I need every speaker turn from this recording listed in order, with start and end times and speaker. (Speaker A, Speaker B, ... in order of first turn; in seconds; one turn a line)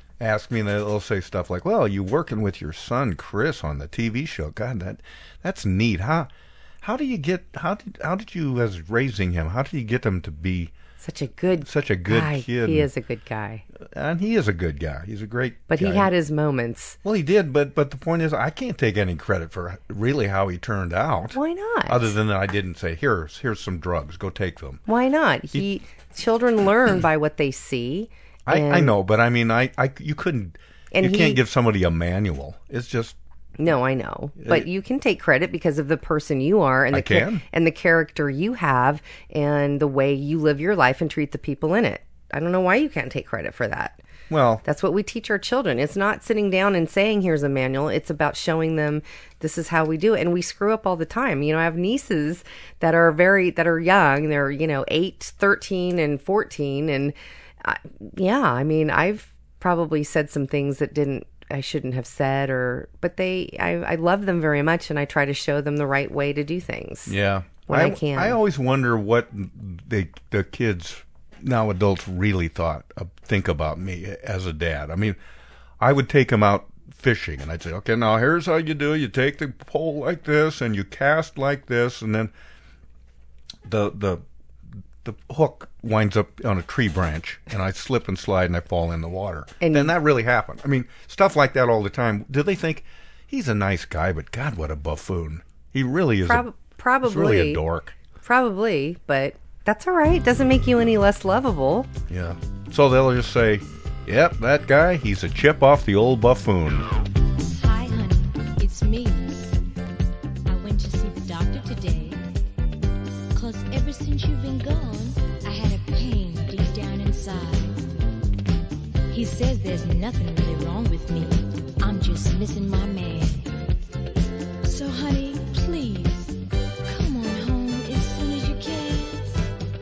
Speaker A: 0.2-6.3
Speaker A: 6.8-10.7
Speaker B: 11.0-13.7
Speaker A: 11.6-12.9
Speaker A: 13.8-16.1
Speaker B: 15.7-17.0
Speaker A: 17.0-24.8
Speaker B: 21.3-22.1
Speaker B: 24.9-28.9
Speaker A: 28.5-33.2
Speaker B: 30.9-31.4
Speaker B: 33.6-44.0
Speaker A: 34.4-34.7
Speaker A: 36.9-37.4
Speaker A: 44.3-44.6
Speaker B: 44.6-67.1
Speaker A: 67.1-75.2
Speaker B: 67.7-68.4
Speaker A: 75.8-82.3
Speaker A: 83.7-84.2
Speaker A: 85.0-96.5
Speaker B: 89.6-89.9
Speaker B: 96.2-97.6
Speaker A: 97.0-97.9
Speaker B: 98.2-101.9
Speaker A: 102.1-106.9
Speaker C: 107.4-109.6
Speaker C: 110.5-112.2
Speaker C: 113.3-117.9
Speaker C: 119.1-123.5
Speaker C: 124.6-126.3
Speaker C: 126.9-129.4